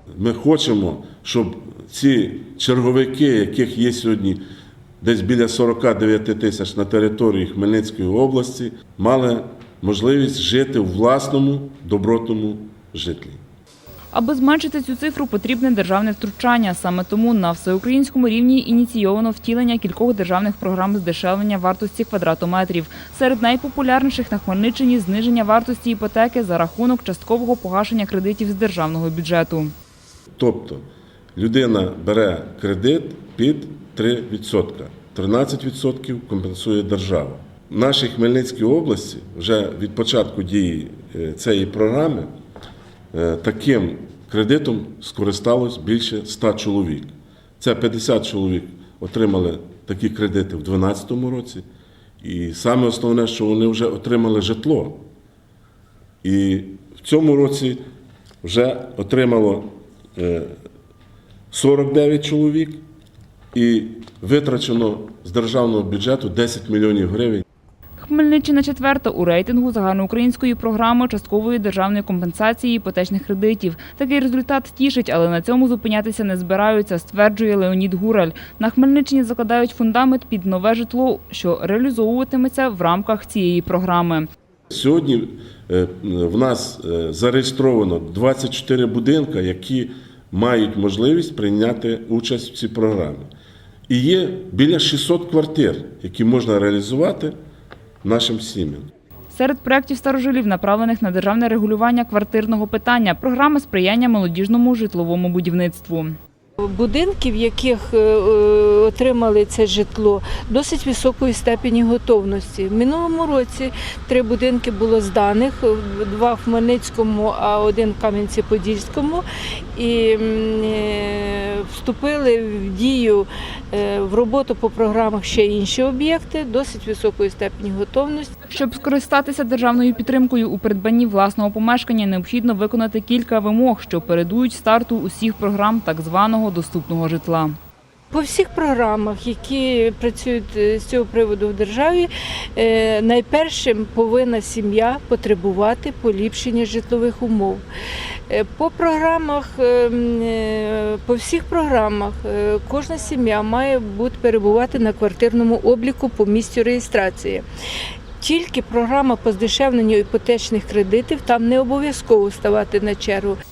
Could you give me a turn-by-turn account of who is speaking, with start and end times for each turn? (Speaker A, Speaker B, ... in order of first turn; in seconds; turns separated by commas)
Speaker A: 0.2-4.4, Speaker A: 5.0-13.4, Speaker B: 14.1-29.7, Speaker A: 30.4-30.8, Speaker A: 31.4-42.3, Speaker A: 43.1-51.6, Speaker A: 52.2-55.0, Speaker A: 56.2-57.8, Speaker A: 58.4-60.6, Speaker A: 61.5-62.8, Speaker A: 63.5-67.4, Speaker B: 68.0-84.3, Speaker A: 84.7-93.3, Speaker A: 93.9-97.3, Speaker A: 98.0-98.9, Speaker B: 99.3-106.2, Speaker C: 106.6-128.3, Speaker B: 128.5-137.5, Speaker C: 138.1-147.6, Speaker C: 148.3-157.4, Speaker C: 158.2-163.4